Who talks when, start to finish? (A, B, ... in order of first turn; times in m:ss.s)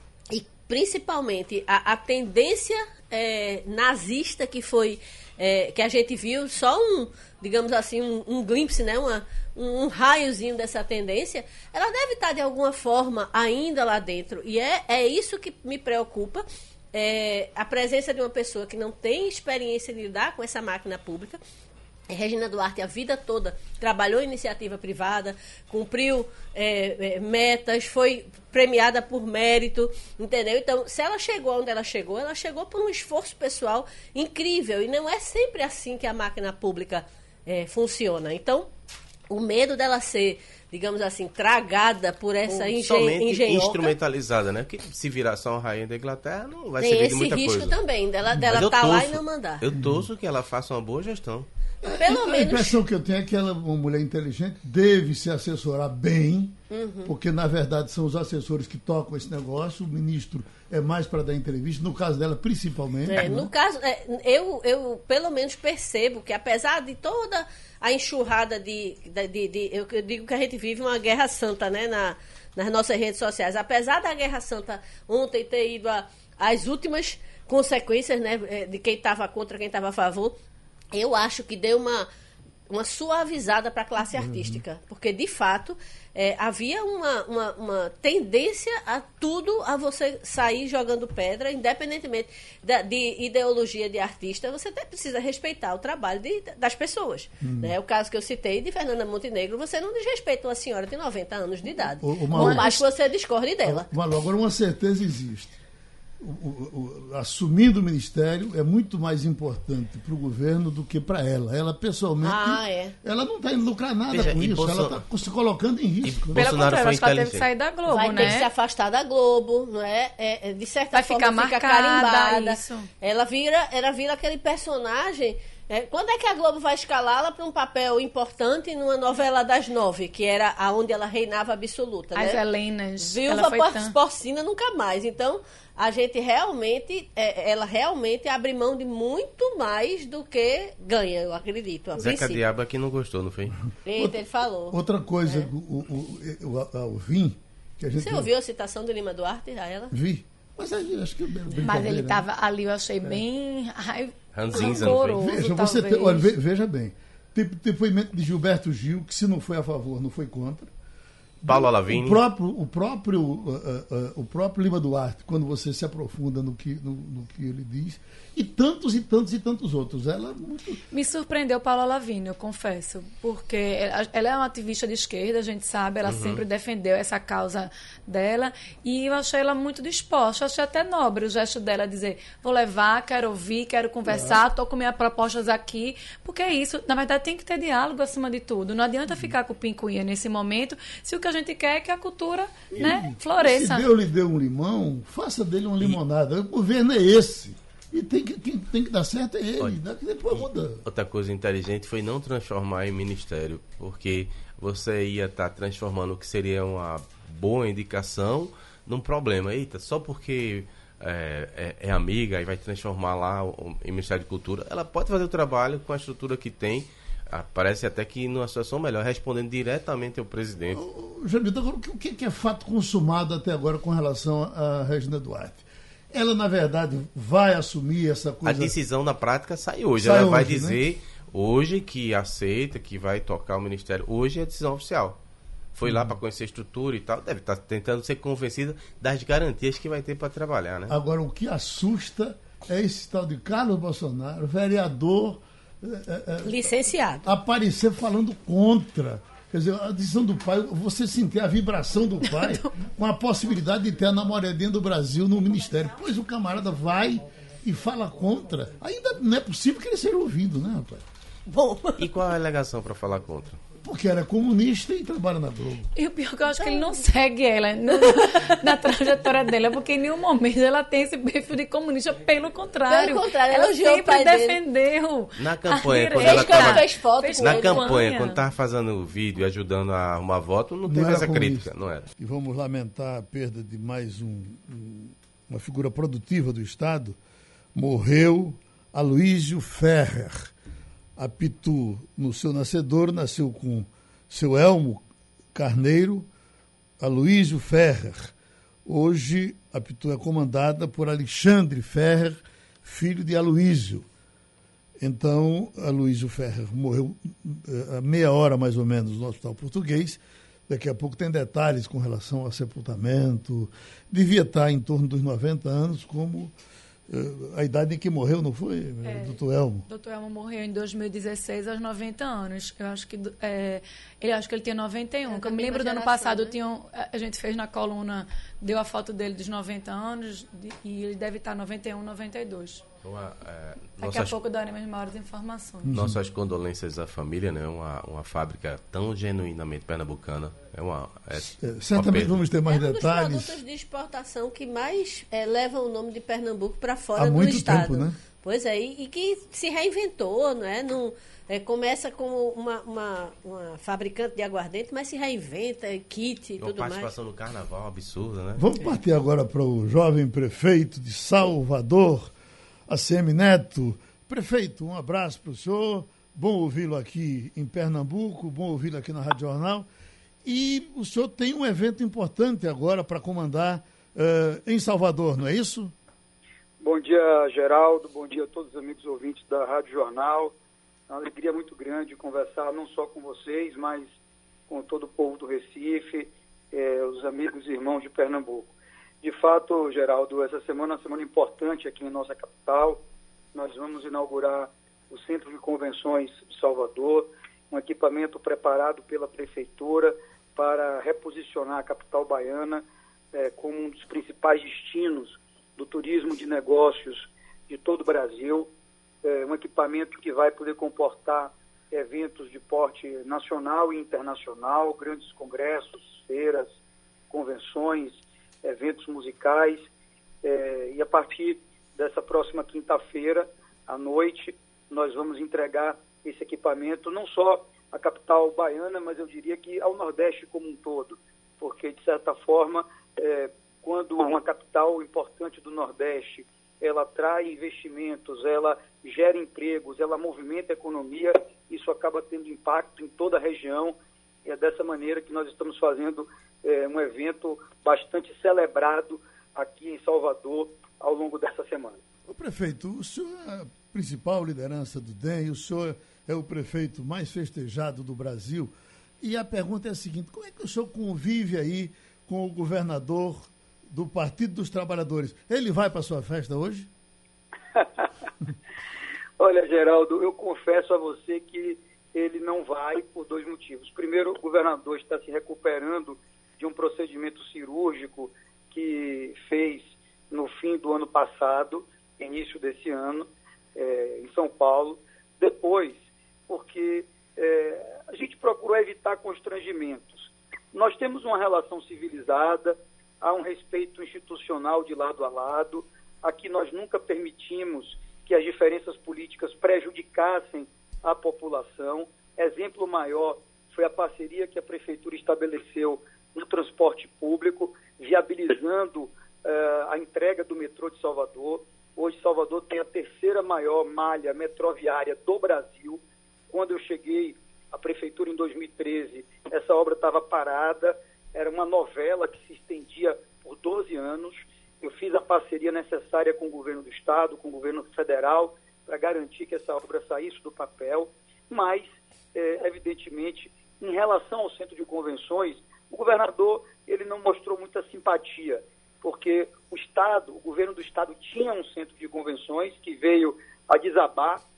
0:00.3-0:21.4 A
0:22.1-0:38.7 A
0:39.3-0:43.9 A
0:42.5-0:47.8 B
0:46.8-0:49.6 A
0:48.3-0:51.5 B
0:49.8-0:50.1 C
0:51.8-1:03.5 C
0:52.0-0:52.8 A
0:56.7-0:57.1 A
1:03.1-1:20.4 A
1:20.9-1:22.1 A
1:22.7-1:43.9 A
1:24.1-1:24.6 C
1:37.4-1:37.8 C
1:42.0-1:42.8 C
1:42.3-1:42.7 D
1:43.6-1:45.6 C
1:46.2-1:56.6 C
1:52.2-1:52.9 A
1:54.1-1:55.0 B
1:56.0-1:57.5 B
1:56.4-1:58.5 D
1:57.9-2:12.4 A
2:00.9-2:02.9 D
2:12.2-2:14.0 D
2:13.0-2:22.4 A
2:22.0-2:23.6 B
2:23.8-2:25.5 A
2:24.7-2:28.3 C
2:28.0-2:30.0 A
2:29.9-2:32.3 C
2:31.6-2:36.3 D
2:34.3-2:35.2 B
2:34.9-2:40.7 C
2:41.4-2:50.8 C
2:41.5-2:42.2 B
2:50.9-3:13.9 D
2:56.0-2:56.4 B
3:04.1-3:04.4 C
3:12.7-3:20.8 C
3:20.3-3:40.8 B
3:40.7-3:48.8 C
3:48.4-3:55.2 B
3:50.0-3:50.8 C
3:55.8-4:01.0 B
3:55.9-3:56.1 C
4:00.9-4:06.7 C
4:06.4-4:07.3 A
4:07.2-4:21.0 C
4:21.5-4:22.1 A
4:22.0-4:23.6 B
4:23.8-4:25.9 C
4:26.0-4:38.4 D
4:26.5-4:27.0 A
4:28.0-4:28.9 A
4:32.9-4:34.6 A
4:35.4-4:42.1 B
4:36.2-4:38.0 A
4:40.8-4:47.2 C
4:47.8-4:50.5 C
4:51.2-4:56.3 C
4:57.0-4:58.3 C
4:58.9-5:04.1 C
5:05.0-5:16.5 C
5:17.1-5:19.9 C
5:19.0-5:32.8 D
5:25.3-5:26.6 A
5:33.0-5:34.4 B
5:34.0-5:35.9 D
5:35.8-5:36.2 C
5:35.9-5:42.4 B
5:41.4-5:43.6 C
5:42.7-5:57.1 A
5:47.2-5:48.2 C
5:56.6-5:58.6 B
5:58.6-6:02.3 C
6:02.9-6:09.9 C
6:10.4-6:15.9 C
6:16.8-6:20.6 E
6:21.1-6:24.1 E
6:24.7-6:33.0 E
6:33.5-6:48.7 E
6:49.2-6:56.7 E
6:57.3-6:59.9 E
7:00.4-7:32.0 E
7:32.3-7:46.9 C
7:47.8-7:48.1 E
7:49.4-9:04.4 E